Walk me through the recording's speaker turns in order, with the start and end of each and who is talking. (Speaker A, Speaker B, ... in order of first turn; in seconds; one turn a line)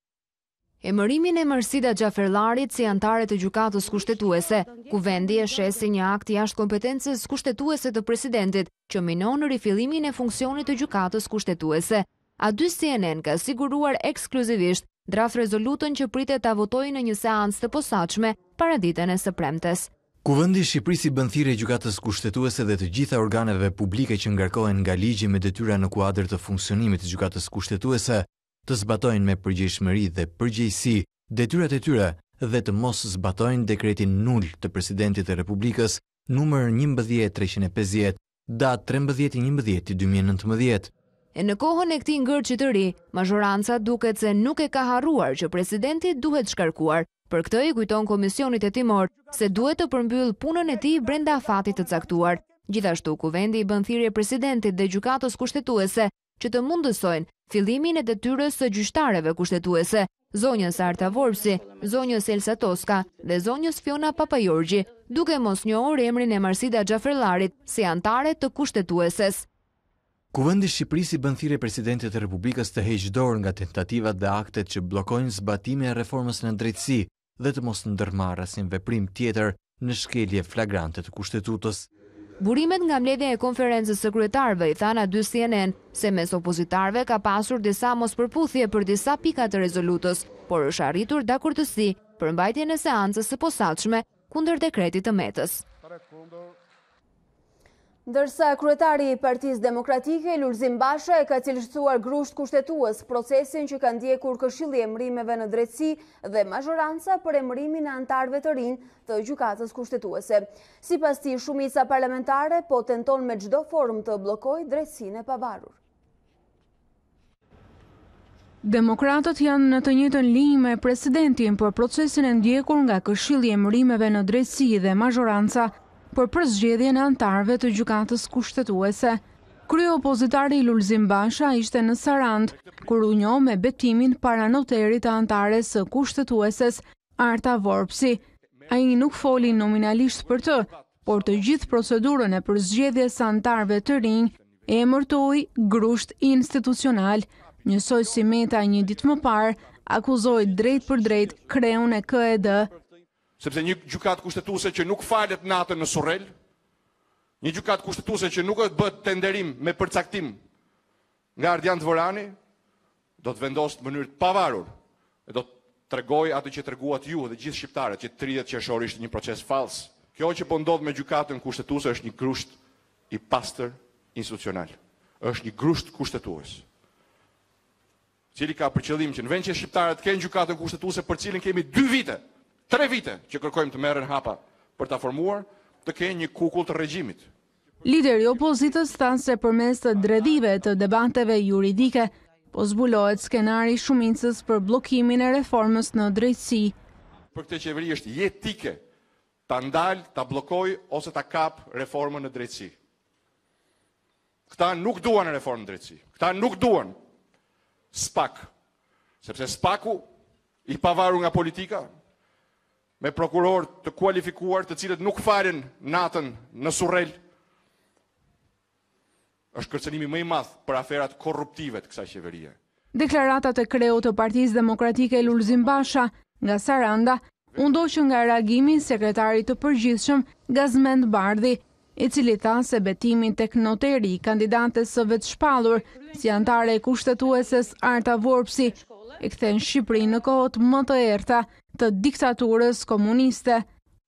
Speaker A: 0.8-19.9
Speaker B: 20.2-40.9
Speaker A: 41.3-69.4
Speaker B: 70.3-81.9
Speaker A: 82.4-95.6
Speaker C: 98.0-115.8
Speaker D: 118.6-152.7
Speaker E: 153.4-156.3
Speaker E: 157.4-160.4
Speaker E: 161.4-162.4
Speaker E: 163.2-164.7
Speaker E: 165.3-172.6
Speaker E: 173.1-176.6
Speaker E: 178.3-187.3
Speaker D: 187.8-196.8
Speaker E: 197.3-198.8
Speaker E: 199.5-202.7
Speaker E: 204.5-206.9
Speaker E: 207.9-208.5
Speaker E: 209.2-210.1
Speaker E: 210.7-211.9
Speaker E: 213.0-217.2
Speaker E: 219.5-222.6
Speaker D: 222.9-243.6